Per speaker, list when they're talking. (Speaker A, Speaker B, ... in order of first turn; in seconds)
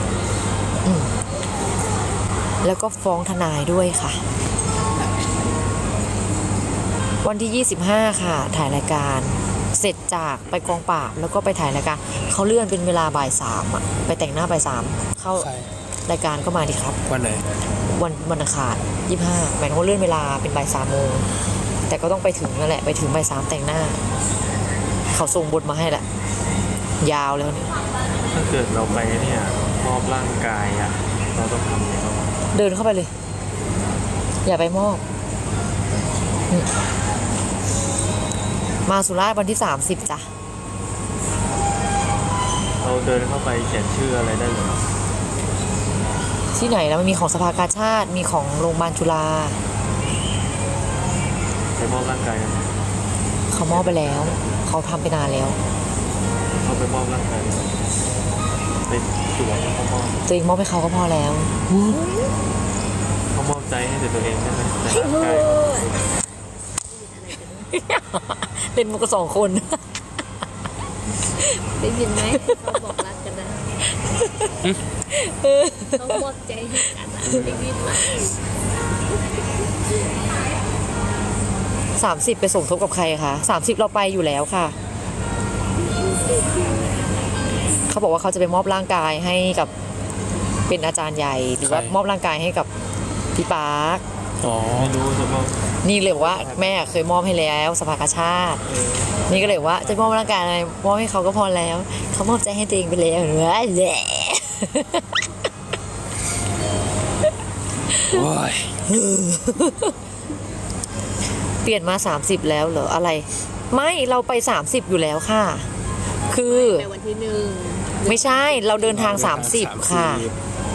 Speaker A: 0.8-1.1, 2.6-4.2, 7.2-15.5, 16.1-17.0, 17.9-21.3, 21.9-24.0, 25.1-26.1, 27.0-27.7, 32.5-33.1, 34.5-35.0, 38.9-40.3, 46.5-49.6, 53.5-55.6, 60.3-61.5, 67.7-69.8, 74.0-74.5, 75.1-76.2, 82.0-84.8, 87.9-89.7, 90.7-92.7, 93.4-94.0, 95.8-98.6, 99.3-105.1, 108.9-109.9, 111.6-115.7, 116.3-116.9, 118.1-120.3
Speaker B: 15.3-15.7, 17.1-17.4, 91.6-91.9, 94.4-95.0, 108.1-108.8, 118.9-120.3
Speaker C: 28.3-32.4, 42.8-44.9, 51.8-52.7, 53.7-54.5, 56.6-57.8, 58.9-60.2, 63.3-66.0, 94.7-96.9, 98.7-100.2
Speaker D: 61.9-62.3, 64.9-65.9, 66.9-67.7, 71.8-73.6, 75.9-78.3, 116.4-119.6